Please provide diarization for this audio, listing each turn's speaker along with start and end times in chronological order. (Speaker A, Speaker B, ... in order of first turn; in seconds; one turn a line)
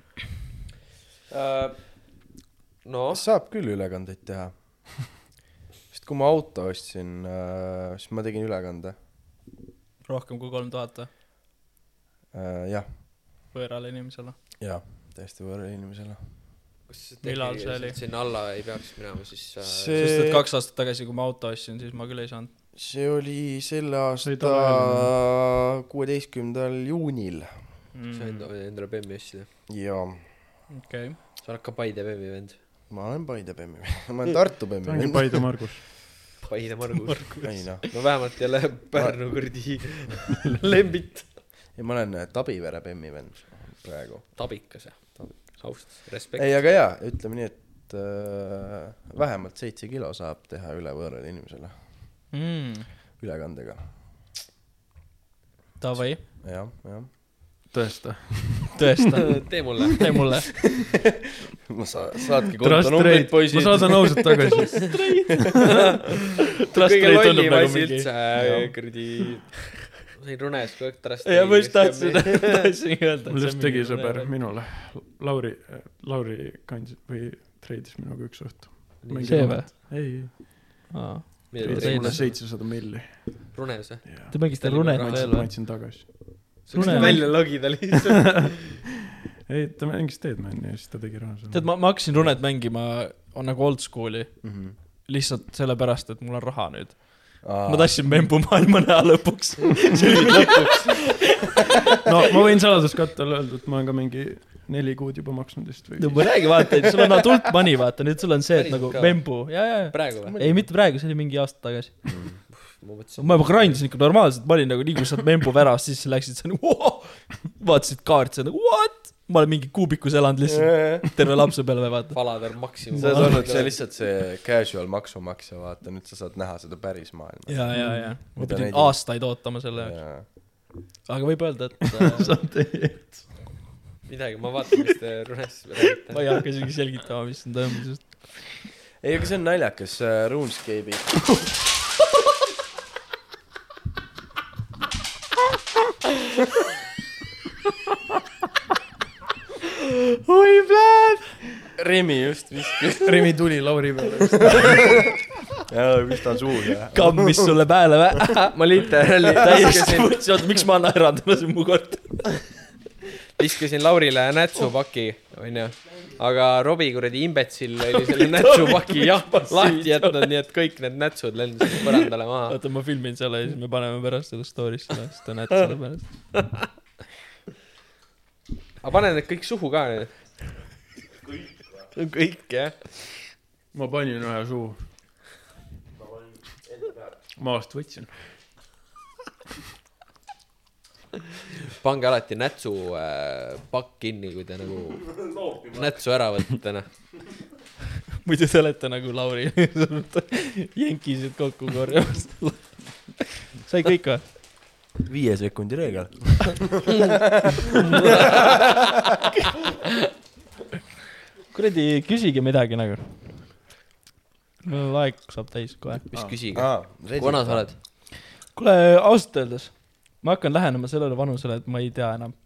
Speaker A: 1.3-2.1
Speaker A: 2.8-3.2
Speaker B: 3.1-5.2
Speaker B: 5.9-8.9
Speaker C: 10.0-11.1
Speaker B: 12.3-12.9
Speaker C: 13.5-14.4
Speaker B: 14.6-16.2
Speaker A: 16.9-20.0
Speaker C: 17.2-18.0
Speaker B: 19.6-20.4
Speaker C: 19.9-22.5
Speaker B: 22.7-27.5
Speaker D: 24.2-25.1
Speaker C: 27.9-28.5
Speaker A: 28.1-29.5
Speaker B: 29.7-30.2
Speaker C: 30.7-31.2
Speaker A: 31.4-32.6
Speaker B: 32.9-35.5
Speaker D: 34.8-35.8
Speaker A: 36.4-41.4
Speaker B: 37.4-38.0
Speaker B: 38.9-39.2
Speaker B: 41.8-51.8
Speaker A: 44.4-46.7
Speaker C: 52.3-52.9
Speaker B: 53.2-54.3
Speaker C: 55.8-56.2
Speaker B: 56.0-57.1
Speaker D: 57.7-58.9
Speaker C: 58.8-60.6
Speaker A: 59.4-60.2
Speaker B: 61.7-64.5
Speaker D: 62.6-65.0
Speaker C: 64.8-65.7
Speaker A: 66.7-72.7
Speaker C: 66.7-68.1
Speaker C: 71.2-74.3
Speaker D: 73.3-80.9
Speaker A: 79.0-79.7
Speaker C: 79.2-82.2
Speaker A: 81.5-82.4
Speaker D: 81.6-83.5
Speaker A: 83.5-85.5
Speaker D: 84.0-87.8
Speaker C: 84.3-85.5
Speaker A: 86.7-88.6
Speaker C: 86.7-87.2
Speaker D: 88.3-88.7
Speaker D: 89.5-92.3
Speaker C: 91.5-101.0
Speaker B: 94.4-94.7
Speaker B: 97.4-98.0
Speaker B: 100.1-101.2
Speaker D: 102.0-106.4
Speaker C: 106.0-112.2
Speaker A: 108.5-110.4
Speaker B: 110.2-110.7
Speaker B: 112.1-112.4
Speaker A: 112.5-113.8
Speaker C: 113.2-123.5
Speaker B: 120.5-121.0
Speaker A: 122.1-123.8
Speaker B: 123.0-130.3
Speaker C: 127.5-132.4
Speaker D: 127.7-128.1
Speaker D: 132.1-133.4
Speaker A: 134.1-136.6
Speaker C: 136.1-138.4
Speaker B: 139.0-141.4
Speaker C: 150.3-151.1
Speaker B: 151.8-157.5
Speaker D: 153.1-155.1
Speaker C: 156.9-158.5
Speaker A: 158.4-160.5
Speaker C: 159.3-162.4
Speaker A: 163.4-172.6
Speaker C: 167.9-170.3
Speaker C: 172.5-176.1
Speaker A: 178.8-180.5
Speaker A: 181.9-183.2
Speaker D: 183.7-184.9
Speaker B: 186.7-186.9
Speaker D: 187.4-188.1
Speaker A: 191.8-197.2
Speaker C: 198.2-204.2
Speaker B: 205.1-208.6
Speaker C: 211.5-213.6
Speaker C: 214.6-216.1
Speaker A: 216.1-217.8
Speaker B: 216.5-217.7
Speaker C: 218.3-222.3